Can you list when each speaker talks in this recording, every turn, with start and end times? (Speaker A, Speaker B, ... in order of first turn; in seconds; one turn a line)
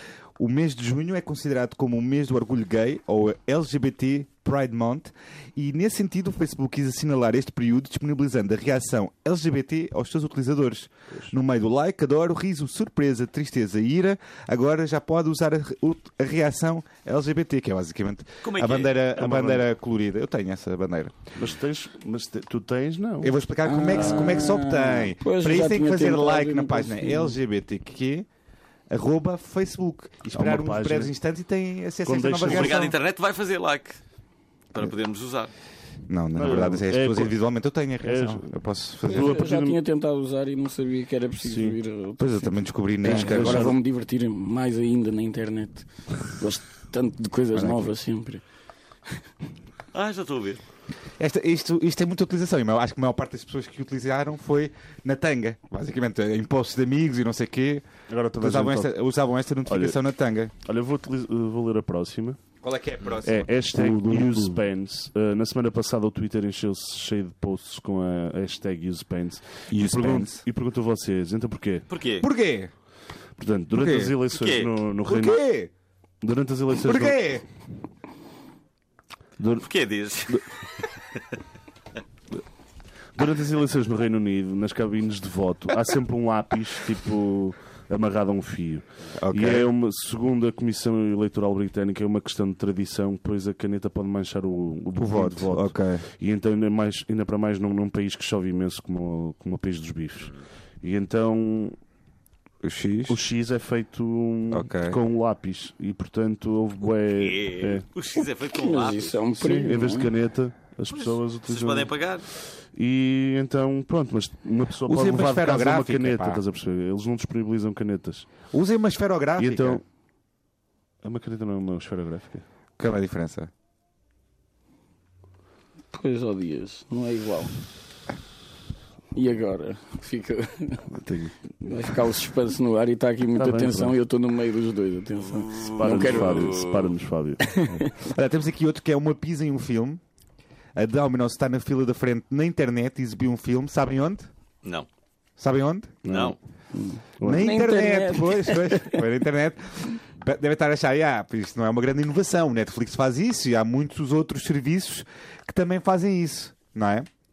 Speaker A: 0.4-21.2
Speaker B: 18.4-19.0
Speaker C: 19.1-19.6
Speaker C: 21.4-23.3
Speaker A: 23.2-28.3
Speaker D: 23.6-27.4
Speaker C: 23.9-24.4
Speaker A: 28.9-32.9
Speaker C: 30.3-31.1
Speaker C: 32.0-32.9
Speaker B: 32.5-34.0
Speaker B: 34.7-35.5
Speaker A: 36.1-39.4
Speaker C: 36.4-37.4
Speaker C: 38.0-39.8
Speaker D: 39.1-48.4
Speaker C: 41.4-41.8
Speaker A: 42.2-43.7
Speaker C: 43.0-43.8
Speaker A: 47.5-47.9
Speaker B: 49.9-50.6
Speaker A: 51.2-60.5
Speaker C: 58.1-58.9
Speaker C: 59.7-60.0
Speaker C: 60.6-62.4
Speaker A: 62.6-64.6
Speaker C: 63.2-71.9
Speaker A: 69.7-70.5
Speaker B: 71.9-72.3
Speaker A: 72.2-72.7
Speaker C: 73.4-75.4
Speaker A: 73.7-74.2
Speaker B: 74.3-74.7
Speaker A: 75.1-75.7
Speaker C: 76.2-77.4
Speaker A: 76.8-77.4
Speaker C: 79.4-79.7
Speaker B: 79.6-81.2
Speaker C: 83.2-101.8
Speaker A: 89.2-89.7
Speaker A: 95.0-96.1
Speaker A: 102.6-103.2
Speaker C: 103.1-107.9
Speaker A: 104.5-105.0
Speaker B: 107.1-109.2
Speaker D: 108.5-110.1
Speaker C: 109.4-118.5
Speaker B: 110.9-112.3
Speaker A: 114.8-116.4
Speaker A: 118.5-119.8
Speaker C: 119.4-119.8
Speaker C: 121.0-122.5
Speaker A: 122.8-123.5
Speaker D: 125.9-127.5
Speaker D: 129.1-130.9
Speaker C: 130.9-131.7
Speaker D: 131.6-136.5
Speaker C: 133.4-134.0
Speaker B: 135.3-136.9
Speaker C: 135.8-137.7
Speaker D: 137.5-137.9
Speaker A: 137.9-140.0
Speaker A: 140.8-144.3
Speaker A: 145.4-146.0
Speaker C: 146.0-146.4
Speaker B: 146.1-146.4
Speaker D: 146.7-149.0
Speaker C: 147.2-147.6
Speaker A: 147.2-157.1